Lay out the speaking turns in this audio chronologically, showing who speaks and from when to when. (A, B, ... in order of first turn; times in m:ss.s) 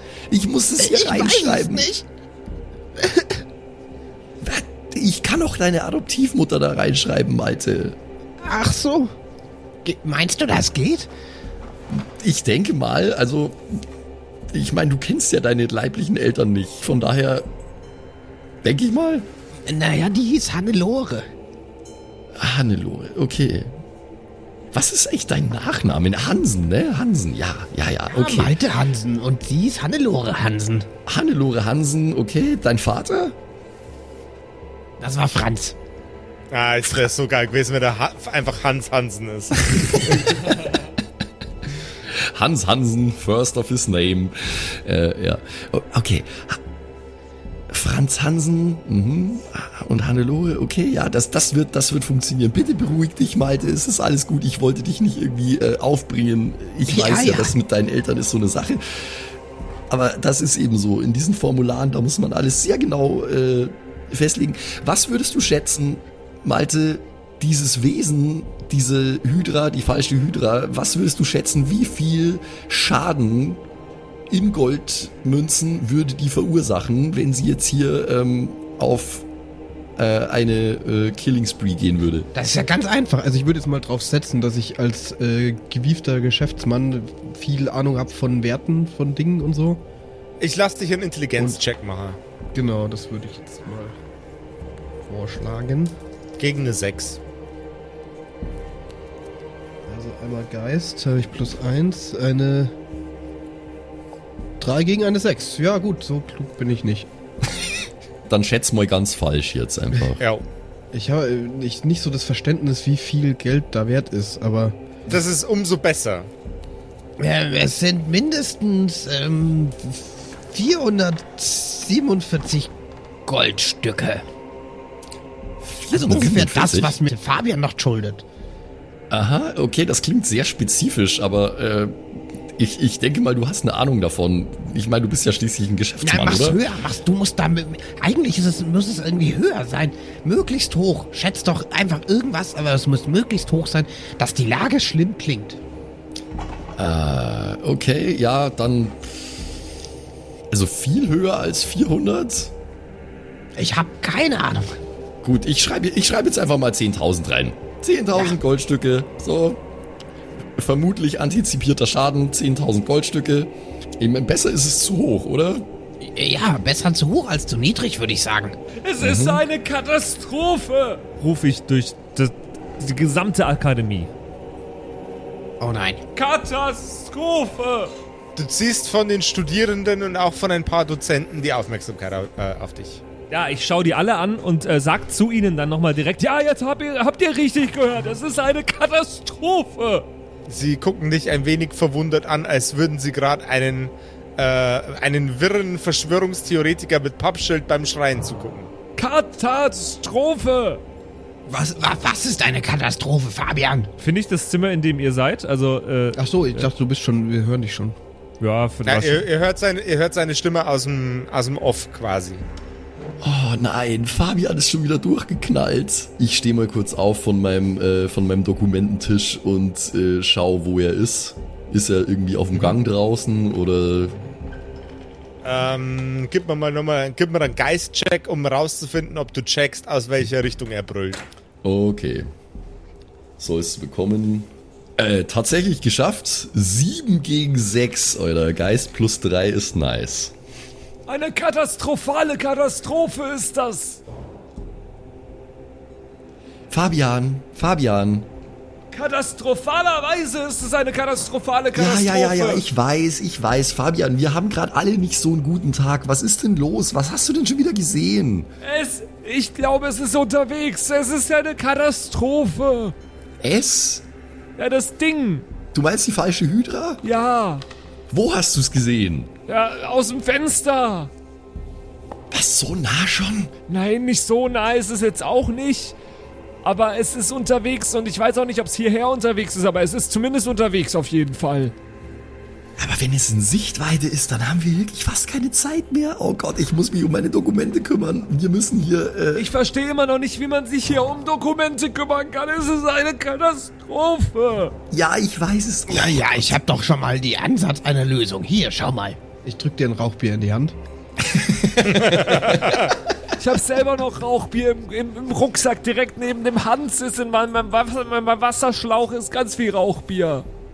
0:00.3-0:01.9 A
0:00.8-0:02.0 B
0:03.0-0:03.3 B
0:04.4-0:08.0 A
0:08.4-0:09.1 B
0:09.8-0:11.1 B
0:11.9-0:13.8 A
0:14.5-0:17.4 A
0:18.6-0:19.3 A
0:19.6-0:21.3 B
0:22.4-0:23.7 A
0:24.7-0:28.5 A
0:28.1-0:30.9 B
0:31.1-0:33.4 A
0:35.0-0:35.8 B
0:36.5-0:40.4 C
0:42.0-0:46.6 A
0:47.7-0:59.3 A
0:56.9-0:57.5 B
0:59.9-1:13.6 A
1:14.3-1:19.2 A
1:20.0-1:22.3 A
1:22.3-1:23.3 B
1:23.2-1:29.8 D
1:30.4-1:32.2 C
1:32.5-1:34.0 D
1:35.0-1:35.9 D
1:36.4-1:37.2 C
1:39.8-1:42.7 D
1:44.6-1:47.1 D
1:48.3-1:50.2 A
1:50.2-1:50.4 C
1:50.9-1:54.8 D
1:55.1-1:56.3 C
1:57.2-2:02.7 B
2:03.2-2:04.2 B
2:05.6-2:07.0 A
2:05.9-2:08.2 B
2:09.1-2:16.6 A
2:16.0-2:25.6 B
2:26.8-2:29.4 A
2:30.5-2:32.5 A
2:33.6-2:34.8 B
2:35.2-2:39.6 A
2:40.6-2:45.7 A
2:46.0-2:48.6 B
2:48.8-2:54.1 E
2:49.0-2:49.4 A
2:55.6-2:56.0 B
2:56.1-2:57.9 E
2:58.4-3:03.0 C
3:03.3-3:10.1 E
3:10.5-3:18.7 C
3:19.0-3:20.8 E
3:21.5-3:23.9 B
3:24.0-3:26.7 E
3:26.2-3:28.0 D
3:28.4-3:29.3 E
3:28.8-3:32.4 C
3:33.2-3:44.2 A
3:45.4-3:51.2 C
3:51.6-3:52.3 A
3:53.4-4:00.3 A
4:01.1-4:04.0 E
4:06.7-4:08.3 A
4:08.9-4:12.6 E
4:11.7-4:18.5 A
4:18.6-4:22.9 E
4:23.4-4:24.0 A
4:24.6-4:25.4 E
4:25.7-4:27.0 A
4:27.0-4:27.6 E
4:28.1-4:29.3 A
4:29.5-4:31.1 E
4:32.3-4:33.5 A
4:33.7-4:35.9 E
4:36.6-4:41.7 E
4:42.8-4:49.5 A
4:49.4-4:54.7 E
4:54.9-4:56.6 A
4:55.9-4:59.2 B
4:59.4-5:00.8 D
5:01.9-5:02.9 C
5:03.4-5:10.4 E